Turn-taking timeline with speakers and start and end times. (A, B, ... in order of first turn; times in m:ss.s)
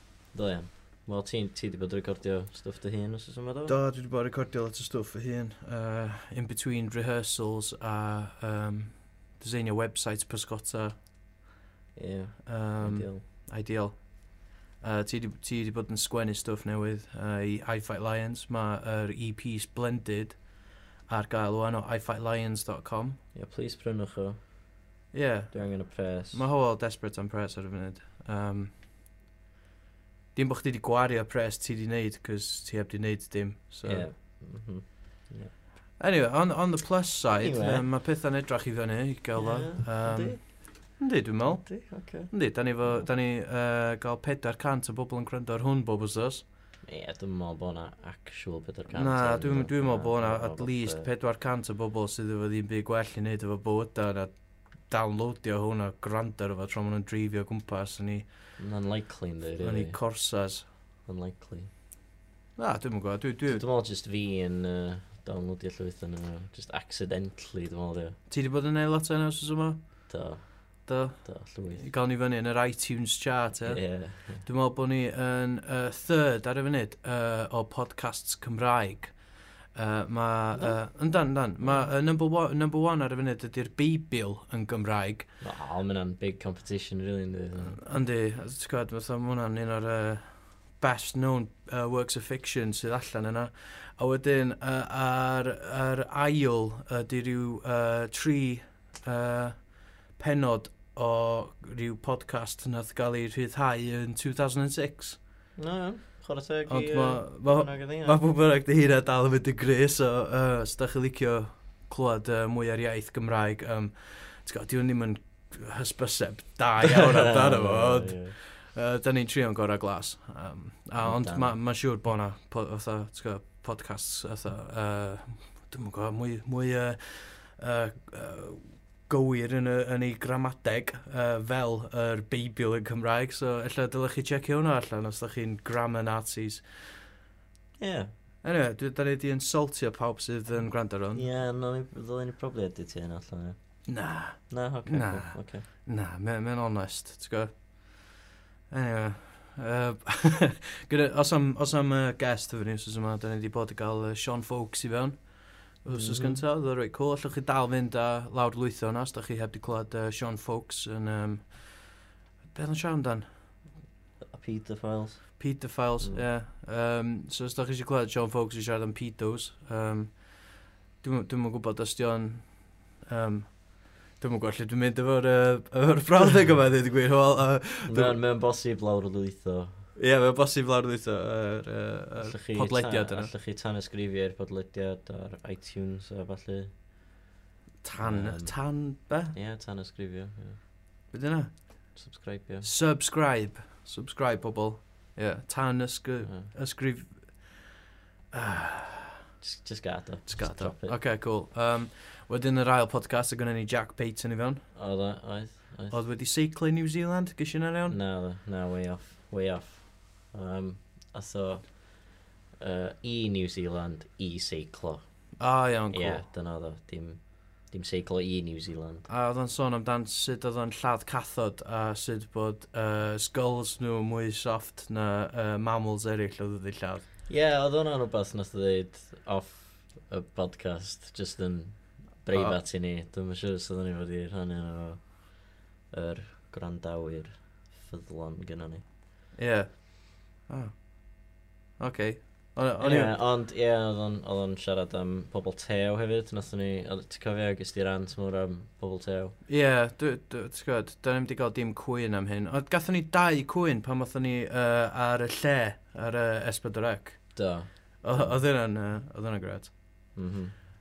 0:00.3-0:03.7 A
0:03.7-0:11.0 B
0:11.9-0:13.2 A
0:12.4-0:20.5 B
0:21.0-0:23.2 B
0:23.3-0:24.4 A
0:25.1-0:28.7 B
0:25.5-0:26.4 A
0:30.3-0:34.1 B
0:33.8-0:35.5 A
0:36.0-0:46.4 B
0:37.4-0:37.8 A
0:39.4-0:40.4 A
0:41.5-0:42.3 A
0:46.8-0:51.1 A
0:48.9-0:58.3 B
0:58.6-1:00.0 A
0:59.6-1:00.6 B
1:01.0-1:01.7 A
1:02.6-1:03.6 B
1:03.5-1:08.2 A
1:08.3-1:10.1 B
1:10.1-1:11.8 A
1:10.8-1:19.2 B
1:13.6-1:14.4 A
1:19.7-1:25.3 B
1:21.6-1:21.9 A
1:25.4-1:27.8 A
1:27.6-1:45.2 B
1:45.6-1:48.2 A
1:46.7-2:16.6 B
1:56.9-1:58.3 A
2:01.0-2:01.6 A
2:17.8-2:18.1 A
2:18.4-2:21.2 B
2:21.1-2:23.8 A
2:23.9-2:28.2 B
2:24.5-2:25.6 A
2:28.7-2:42.0 B
2:35.9-2:36.4 A
2:42.5-2:43.2 B
2:44.2-2:45.4 A
2:45.4-2:58.2 B
2:46.0-2:46.2 A
2:57.8-2:59.9 A
3:00.0-3:03.3 B
3:02.2-3:06.7 A
3:07.8-3:09.3 B
3:08.0-3:08.6 A
3:09.3-3:10.6 A
3:11.1-3:12.0 B
3:11.9-3:12.7 A
3:12.6-3:17.7 B
3:16.2-3:16.5 A
3:18.3-3:19.2 B
3:19.4-3:20.9 A
3:20.3-3:24.7 B
3:24.7-3:26.0 A
3:25.9-3:28.0 B
3:27.9-3:35.0 A
3:35.4-3:36.2 B
3:35.9-3:39.1 A
3:39.1-3:47.1 B
3:47.3-3:58.8 A
3:52.3-3:52.6 B
3:59.3-4:03.1 B
4:02.8-4:09.4 A
4:09.4-4:17.4 B
4:17.3-4:18.4 A
4:18.0-4:20.0 B
4:20.1-4:20.5 A